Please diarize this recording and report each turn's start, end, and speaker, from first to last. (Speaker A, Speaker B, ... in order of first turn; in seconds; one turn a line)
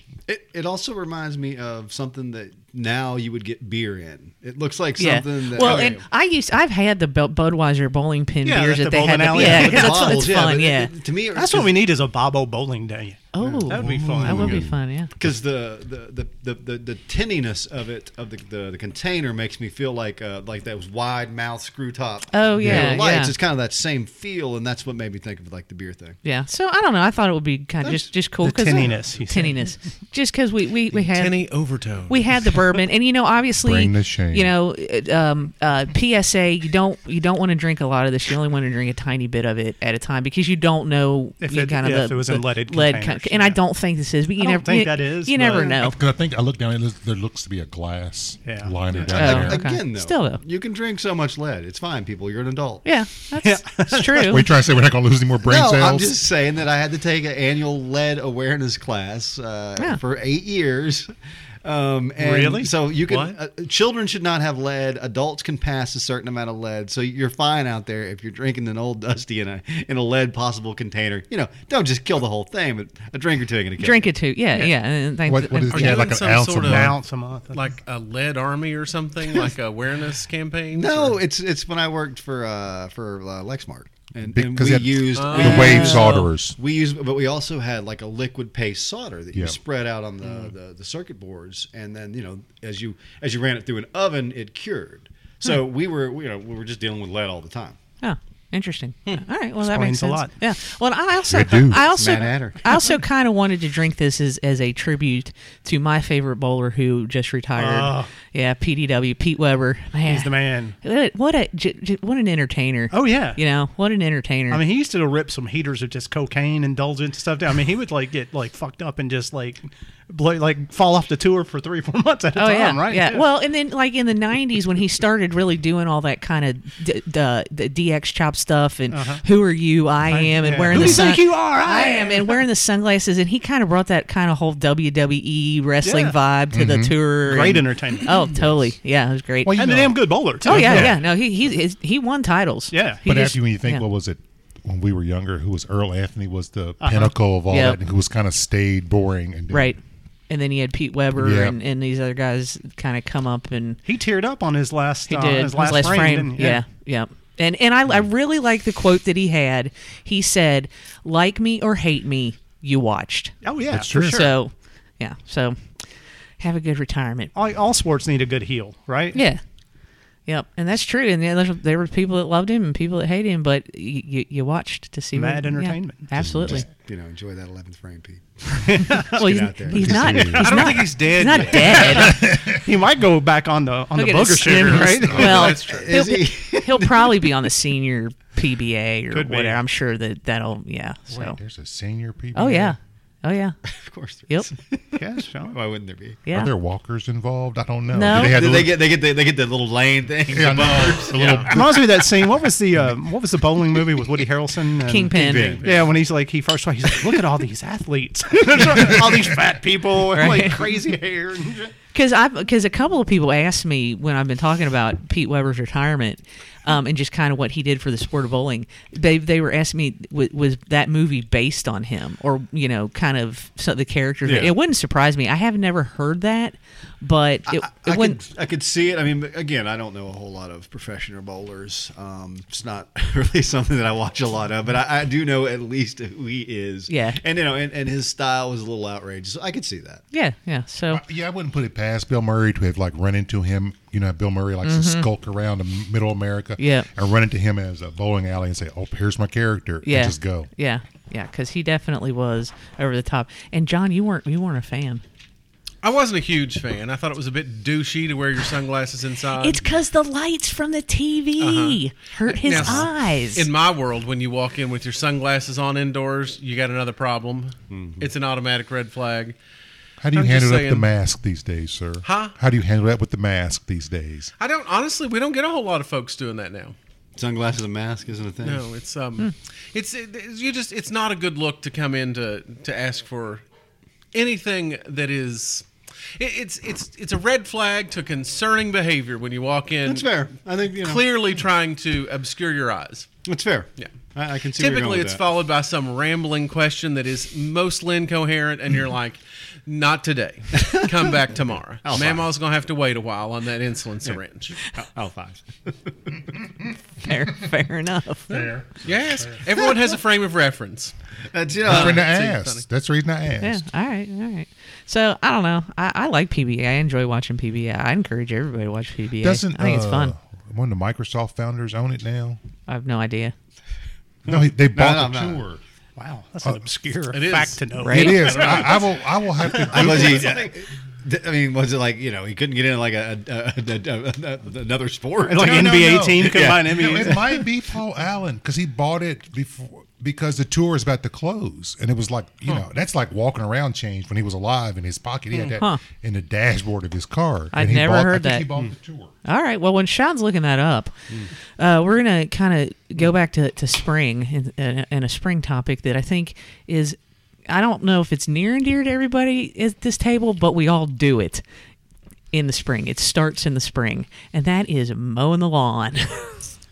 Speaker A: 0.3-6.0
Speaker B: 5.0-10.9
Speaker C: 5.6-6.0
Speaker D: 8.4-10.4
Speaker A: 9.3-11.8
Speaker D: 11.3-14.6
Speaker B: 13.3-15.1
Speaker A: 13.4-14.6
Speaker E: 13.8-15.4
Speaker A: 15.2-26.2
Speaker B: 22.3-23.4
Speaker E: 22.6-22.9
Speaker B: 26.2-31.5
Speaker D: 28.4-29.6
Speaker C: 30.9-32.5
Speaker B: 32.1-46.0
Speaker E: 33.6-34.5
Speaker D: 41.4-43.6
Speaker D: 44.4-45.8
Speaker E: 45.8-49.6
Speaker D: 48.5-48.8
Speaker A: 48.9-52.9
Speaker B: 49.1-50.4
Speaker B: 52.8-54.5
Speaker D: 53.4-54.4
Speaker E: 54.3-56.1
Speaker A: 55.4-61.1
Speaker A: 61.6-74.1
Speaker D: 62.2-62.7
Speaker C: 63.1-63.4
Speaker B: 73.8-76.0
Speaker E: 75.3-77.0
Speaker C: 75.7-81.2
Speaker D: 76.6-77.6
Speaker A: 80.8-97.8
Speaker E: 84.2-86.6
Speaker C: 85.1-85.7
Speaker B: 85.3-86.3
Speaker C: 90.2-90.5
Speaker B: 98.0-114.6
Speaker D: 99.6-100.3
Speaker E: 101.3-102.0
Speaker A: 101.9-102.9
Speaker D: 107.6-108.1
Speaker D: 110.1-110.8
Speaker D: 112.9-113.4
Speaker D: 114.5-123.3
Speaker B: 122.3-139.6
Speaker D: 128.9-129.2
Speaker D: 130.1-132.4
Speaker E: 130.7-131.1
Speaker D: 135.8-136.2
Speaker E: 136.5-137.0
Speaker D: 137.2-138.2
Speaker E: 138.4-138.7
Speaker E: 139.4-141.0
Speaker D: 139.5-141.0
Speaker B: 140.4-143.8
Speaker D: 142.7-143.0
Speaker E: 143.1-149.7
Speaker D: 146.8-147.1
Speaker B: 147.5-147.8
Speaker B: 149.5-153.8
Speaker E: 151.2-151.6
Speaker D: 153.9-156.6
Speaker B: 155.1-165.9
Speaker D: 163.4-164.3
Speaker E: 163.7-164.3
Speaker B: 166.4-167.3
Speaker D: 167.3-169.2
Speaker B: 169.1-169.4
Speaker B: 170.3-176.7
Speaker D: 175.1-176.1
Speaker E: 176.2-176.6
Speaker A: 176.2-180.5
Speaker D: 178.6-179.2
Speaker B: 179.1-182.2
Speaker E: 179.7-180.8
Speaker C: 180.3-182.1
Speaker D: 181.7-185.6
Speaker E: 181.8-182.6
Speaker B: 183.9-191.4
Speaker E: 185.0-185.5
Speaker C: 185.1-185.9
Speaker A: 185.2-187.2
Speaker D: 189.1-189.6
Speaker E: 191.1-192.7
Speaker B: 192.3-193.6
Speaker A: 193.7-196.2
Speaker D: 195.0-195.6
Speaker B: 196.3-196.5
Speaker E: 196.3-198.8
Speaker B: 197.9-198.4
Speaker A: 198.1-201.5
Speaker E: 200.3-202.1
Speaker C: 201.1-201.5
Speaker D: 201.5-211.7
Speaker B: 204.8-205.6
Speaker A: 205.1-205.8
Speaker C: 205.3-205.9
Speaker E: 208.8-209.2
Speaker B: 210.1-210.7
Speaker B: 211.9-228.2
Speaker A: 224.2-224.5
Speaker A: 227.5-240.0
Speaker B: 236.9-237.2
Speaker B: 240.1-241.0
Speaker E: 240.9-250.5
Speaker B: 244.6-245.1
Speaker B: 246.6-246.9
Speaker B: 249.8-255.0
Speaker C: 255.8-259.6
Speaker B: 259.4-263.5
Speaker C: 261.4-269.4
Speaker A: 267.7-268.1
Speaker E: 270.0-274.3
Speaker C: 270.1-270.9
Speaker C: 272.0-272.4
Speaker C: 274.4-276.8
Speaker A: 277.2-278.6
Speaker C: 278.4-283.4
Speaker C: 284.1-285.7
Speaker C: 286.2-290.2
Speaker A: 289.9-291.0
Speaker C: 290.8-293.1
Speaker A: 293.2-295.2
Speaker C: 294.6-304.7
Speaker A: 300.6-300.9
Speaker A: 301.8-302.3
Speaker A: 304.1-306.2
Speaker B: 307.0-308.3
Speaker E: 308.3-309.5
Speaker C: 308.3-310.9
Speaker A: 311.3-312.1
Speaker C: 311.6-312.6
Speaker E: 311.6-313.7
Speaker B: 313.4-320.1
Speaker E: 319.2-322.4
Speaker B: 322.7-323.3
Speaker E: 324.3-325.6
Speaker A: 324.3-325.4
Speaker D: 326.0-328.7
Speaker C: 327.1-328.9
Speaker B: 327.8-328.2
Speaker E: 327.9-330.5
Speaker A: 329.5-337.4
Speaker D: 329.8-330.4
Speaker D: 335.3-337.2
Speaker E: 335.4-349.1
Speaker B: 345.6-345.8
Speaker B: 347.5-348.5
Speaker B: 349.2-350.9
Speaker B: 351.6-361.4
Speaker B: 362.3-366.4